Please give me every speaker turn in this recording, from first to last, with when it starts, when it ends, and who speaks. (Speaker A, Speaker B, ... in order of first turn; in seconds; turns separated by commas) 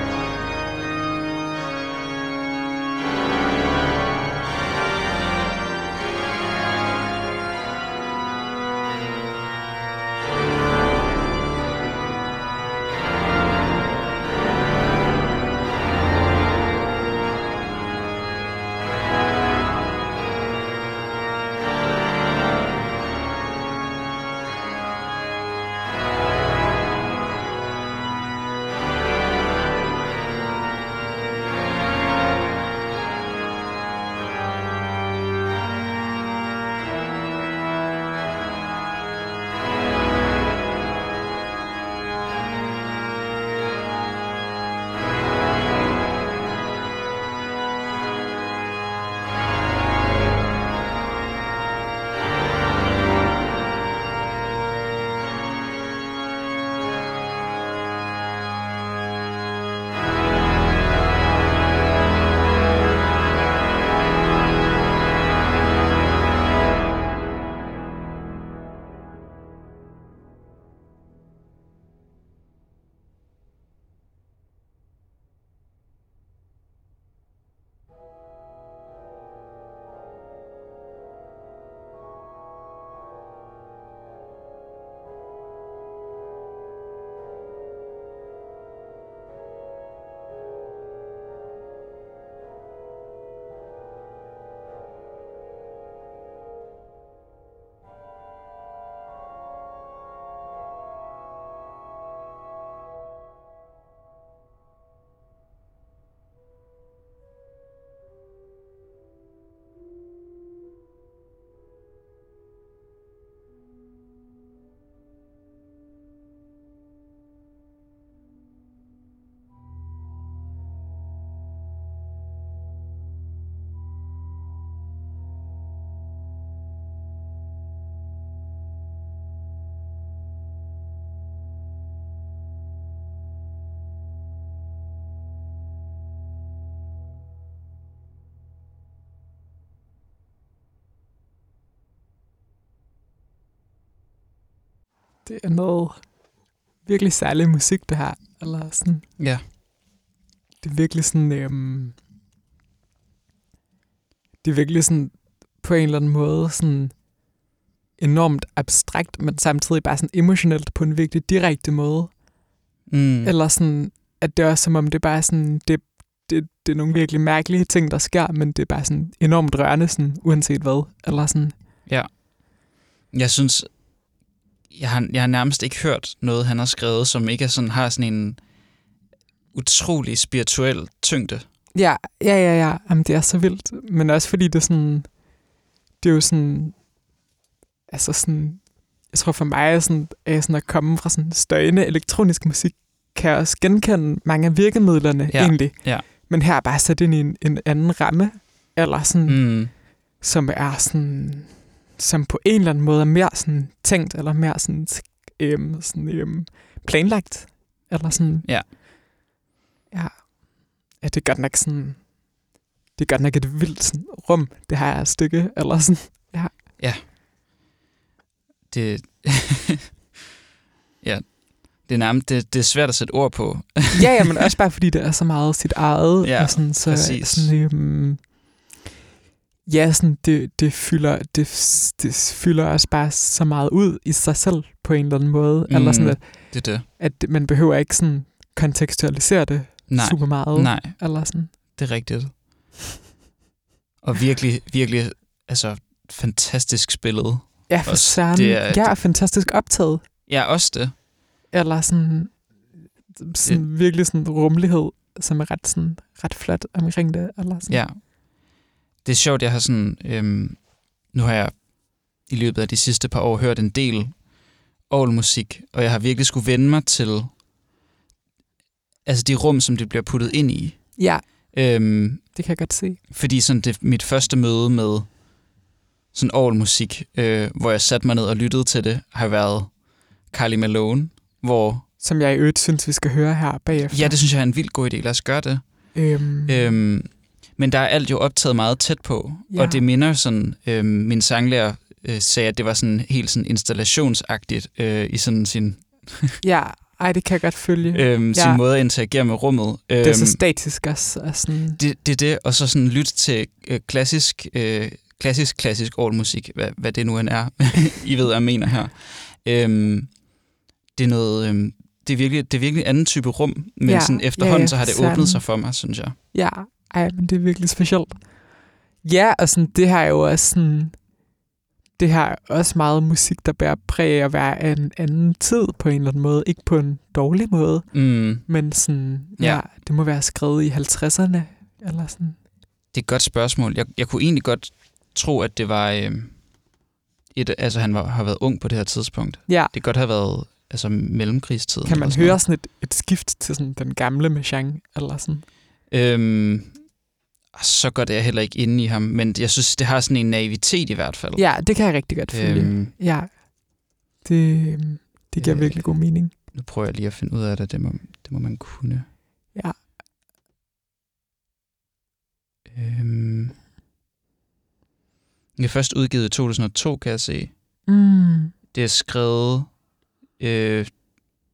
Speaker A: 145.2-149.1, Speaker B: 149.2-149.4, Speaker A: 150.6-152.0, Speaker A: 154.4-157.2, Speaker A: 158.0-162.2, Speaker B: 162.9-163.3, Speaker A: 163.2-171.5, Speaker B: 171.8-174.1, Speaker B: 174.7-178.5, Speaker B: 179.5-181.5, Speaker A: 181.7-185.5, Speaker A: 186.0-186.9, Speaker A: 187.9-208.7, Speaker B: 195.3-196.1, Speaker B: 199.3-199.7, Speaker B: 208.4-208.7, Speaker A: 209.9-212.4, Speaker A: 212.9-216.6, Speaker B: 216.8-217.0, Speaker B: 218.7-219.9, Speaker B: 221.0-224.5, Speaker A: 223.9-228.3, Speaker B: 226.2-227.5, Speaker A: 229.6-241.5, Speaker B: 235.7-236.9, Speaker B: 239.9-242.4, Speaker B: 244.0-248.9, Speaker A: 247.7-250.0, Speaker B: 250.3-250.9, Speaker A: 251.5-257.8, Speaker B: 257.7-267.4, Speaker B: 269.0-272.4, Speaker A: 270.9-271.5, Speaker A: 272.3-273.0, Speaker B: 273.1-275.4, Speaker B: 276.1-281.9, Speaker A: 282.0-284.2, Speaker B: 283.9-296.4, Speaker A: 285.9-286.8, Speaker A: 289.5-289.8, Speaker A: 296.4-298.6, Speaker B: 297.9-300.4, Speaker A: 300.0-301.8, Speaker B: 301.8-310.4, Speaker B: 310.9-316.2, Speaker A: 313.8-321.2, Speaker A: 322.0-332.4, Speaker B: 327.9-328.8, Speaker B: 329.4-329.6, Speaker B: 332.9-336.6, Speaker B: 337.3-342.4, Speaker A: 339.5-339.7, Speaker A: 341.8-345.4, Speaker B: 345.9-346.9, Speaker B: 347.5-352.9, Speaker A: 351.4-356.3, Speaker B: 355.4-359.1, Speaker A: 359.5-359.8, Speaker B: 362.7-363.6, Speaker B: 365.6-367.5, Speaker A: 367.9-368.5, Speaker B: 368.7-369.8, Speaker B: 370.4-370.9